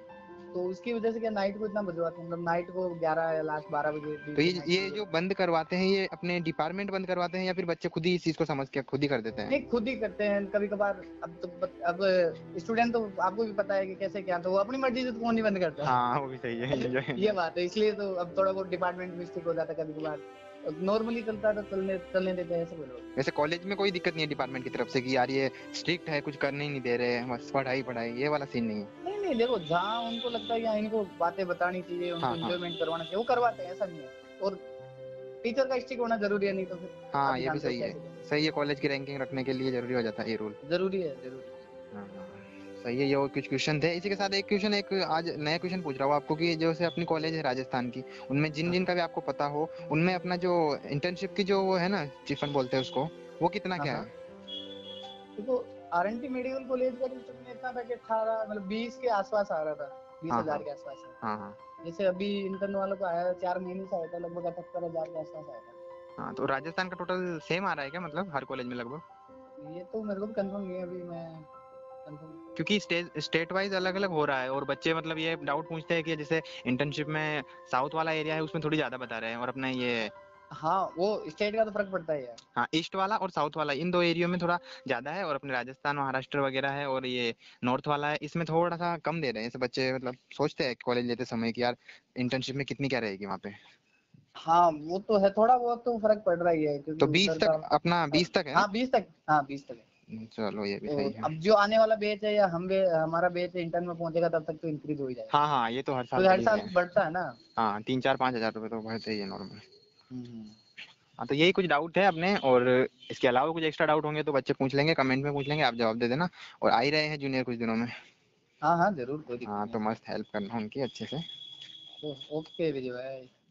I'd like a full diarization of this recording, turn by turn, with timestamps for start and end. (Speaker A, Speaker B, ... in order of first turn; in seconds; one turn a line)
Speaker A: 0.5-5.1
Speaker B: 4.3-9.6
Speaker A: 9.5-15.9
Speaker B: 15.8-17.4
Speaker A: 16.7-23.0
Speaker B: 23.1-28.9
Speaker A: 29.0-34.6
Speaker B: 32.2-32.6
Speaker A: 35.4-38.2
Speaker B: 37.1-40.6
Speaker A: 40.6-41.6
Speaker B: 41.9-54.1
Speaker A: 53.8-54.1
Speaker A: 55.4-61.1
Speaker B: 60.3-60.6
Speaker B: 61.2-61.6
Speaker A: 61.8-65.8
Speaker B: 66.2-69.0
Speaker A: 69.6-71.5
Speaker A: 72.0-72.4
Speaker B: 72.5-80.1
Speaker A: 80.5-82.4
Speaker B: 82.5-93.6
Speaker A: 94.4-99.8
Speaker B: 97.0-98.7
Speaker B: 100.1-101.3
Speaker A: 100.9-105.3
Speaker B: 105.3-106.7
Speaker A: 106.1-107.4
Speaker B: 107.5-109.6
Speaker A: 110.1-110.6
Speaker B: 111.2-117.9
Speaker A: 118.6-119.8
Speaker B: 119.4-121.2
Speaker A: 122.0-123.3